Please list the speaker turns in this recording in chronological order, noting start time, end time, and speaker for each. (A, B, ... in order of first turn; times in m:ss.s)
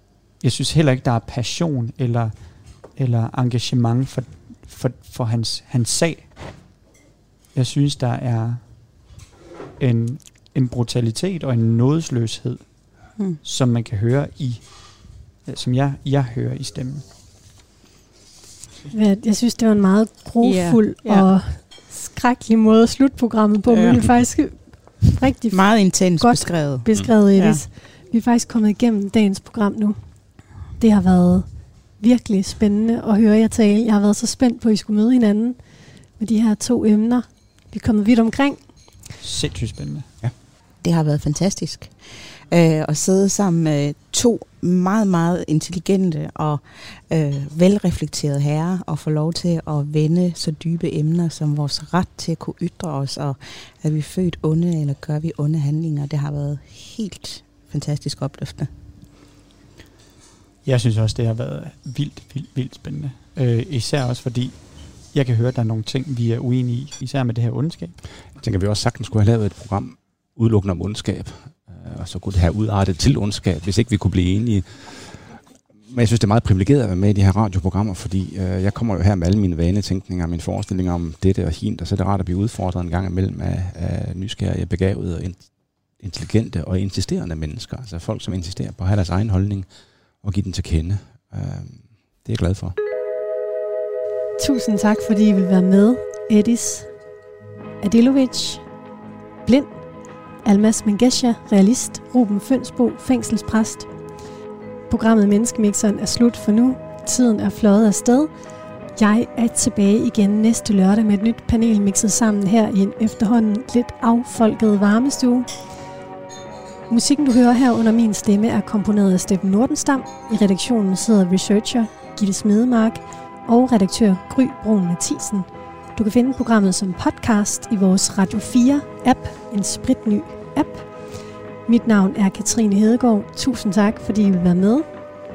0:00.4-0:06.4 A
0:07.5-0:09.2 A
0:09.8-0:17.1 A
0:18.9-0:39.0 B
0:20.4-0:21.3 C
0:23.7-0:24.3 C
0:25.5-0:27.6 C
0:39.2-0:40.1 A
0:40.8-0:58.7 C
1:00.6-1:08.0 A
1:08.4-1:32.8 D
1:34.4-1:37.0 B
1:37.8-1:38.6 B
1:39.4-1:39.8 B
1:40.4-1:43.9 B
1:44.9-1:48.3 B
1:49.0-1:55.5 B
1:56.9-2:15.0 B